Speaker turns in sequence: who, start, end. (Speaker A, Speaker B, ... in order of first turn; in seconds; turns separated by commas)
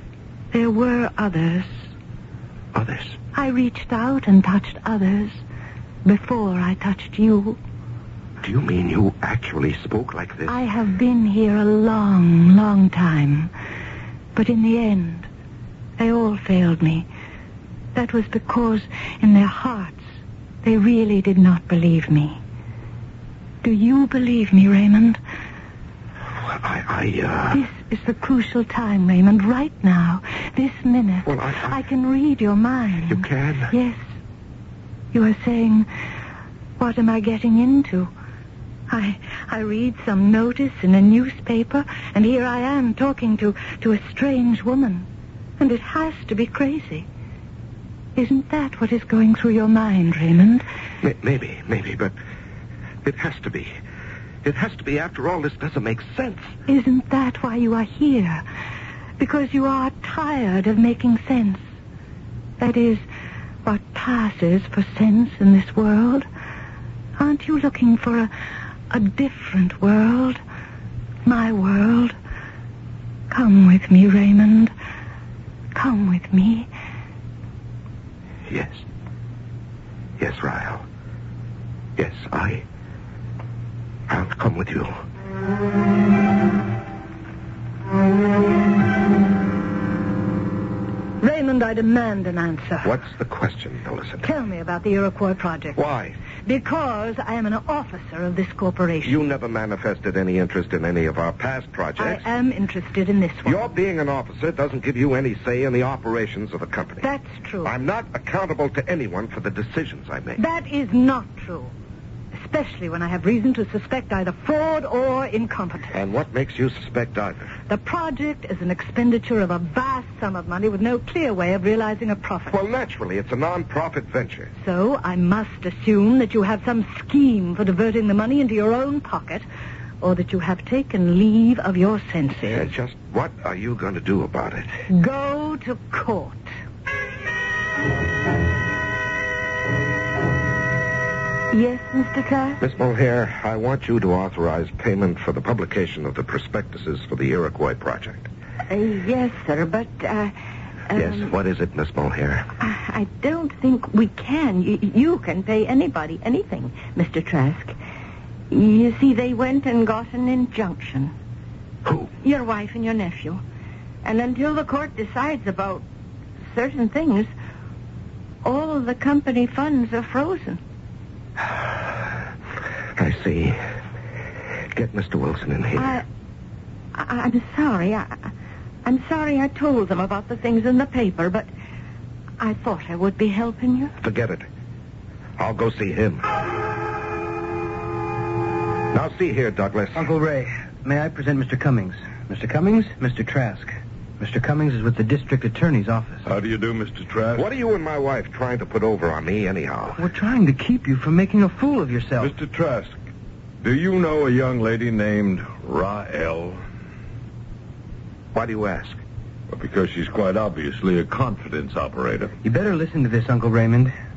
Speaker A: 0.5-1.9, Speaker B: 2.7-3.2, Speaker A: 3.3-5.4, Speaker A: 6.0-7.6, Speaker B: 8.4-10.6, Speaker A: 10.5-13.5, Speaker A: 14.3-15.3, Speaker A: 16.0-17.1, Speaker A: 17.9-20.1, Speaker A: 20.6-22.4, Speaker A: 23.6-25.2, Speaker B: 26.4-27.6, Speaker A: 27.5-34.0, Speaker B: 31.3-31.8, Speaker B: 33.1-33.7, Speaker A: 35.1-35.9, Speaker A: 36.8-38.1, Speaker A: 38.9-45.1, Speaker A: 45.6-47.1, Speaker A: 48.2-50.6, Speaker B: 51.0-52.1, Speaker B: 53.0-53.7, Speaker B: 54.4-56.5, Speaker A: 56.7-58.4, Speaker A: 59.2-61.6, Speaker A: 62.6-63.0, Speaker A: 63.6-66.3, Speaker A: 67.2-68.3, Speaker A: 68.9-70.4, Speaker A: 71.2-72.2, Speaker A: 73.3-74.7, Speaker A: 75.7-76.7, Speaker B: 78.5-78.8, Speaker B: 80.2-80.8, Speaker B: 82.0-82.7, Speaker B: 84.1-84.9, Speaker A: 91.2-93.0, Speaker B: 92.8-94.2, Speaker A: 94.2-95.8, Speaker B: 95.8-96.2, Speaker A: 96.4-99.2, Speaker B: 99.0-102.2, Speaker A: 102.0-103.7, Speaker B: 103.5-107.0, Speaker A: 107.0-107.7, Speaker B: 107.6-110.4, Speaker A: 110.4-111.7, Speaker A: 112.4-115.9, Speaker B: 115.9-117.5, Speaker A: 117.7-122.6, Speaker B: 122.5-124.5, Speaker A: 124.6-129.5, Speaker A: 130.0-132.7, Speaker B: 132.5-134.7, Speaker A: 134.9-136.5, Speaker C: 141.5-142.6, Speaker B: 142.6-148.3, Speaker C: 148.7-150.3, Speaker C: 150.9-151.3, Speaker B: 150.9-152.5, Speaker C: 152.6-157.8, Speaker C: 158.5-161.1, Speaker B: 161.8-162.1, Speaker C: 162.2-163.4, Speaker C: 164.0-165.8, Speaker C: 166.5-167.3, Speaker C: 168.4-170.6, Speaker B: 171.5-171.8, Speaker B: 173.0-173.6, Speaker B: 174.7-176.0, Speaker C: 175.8-176.1, Speaker C: 176.9-178.2, Speaker C: 178.8-181.5, Speaker C: 182.4-183.9, Speaker B: 184.0-184.5, Speaker B: 185.4-186.2, Speaker B: 188.9-190.1, Speaker D: 189.9-196.2, Speaker E: 196.2-197.5, Speaker B: 197.3-200.0, Speaker D: 200.0-202.3, Speaker E: 202.2-203.0, Speaker E: 203.6-206.6, Speaker B: 208.3-209.0, Speaker E: 209.5-212.4, Speaker D: 212.4-213.9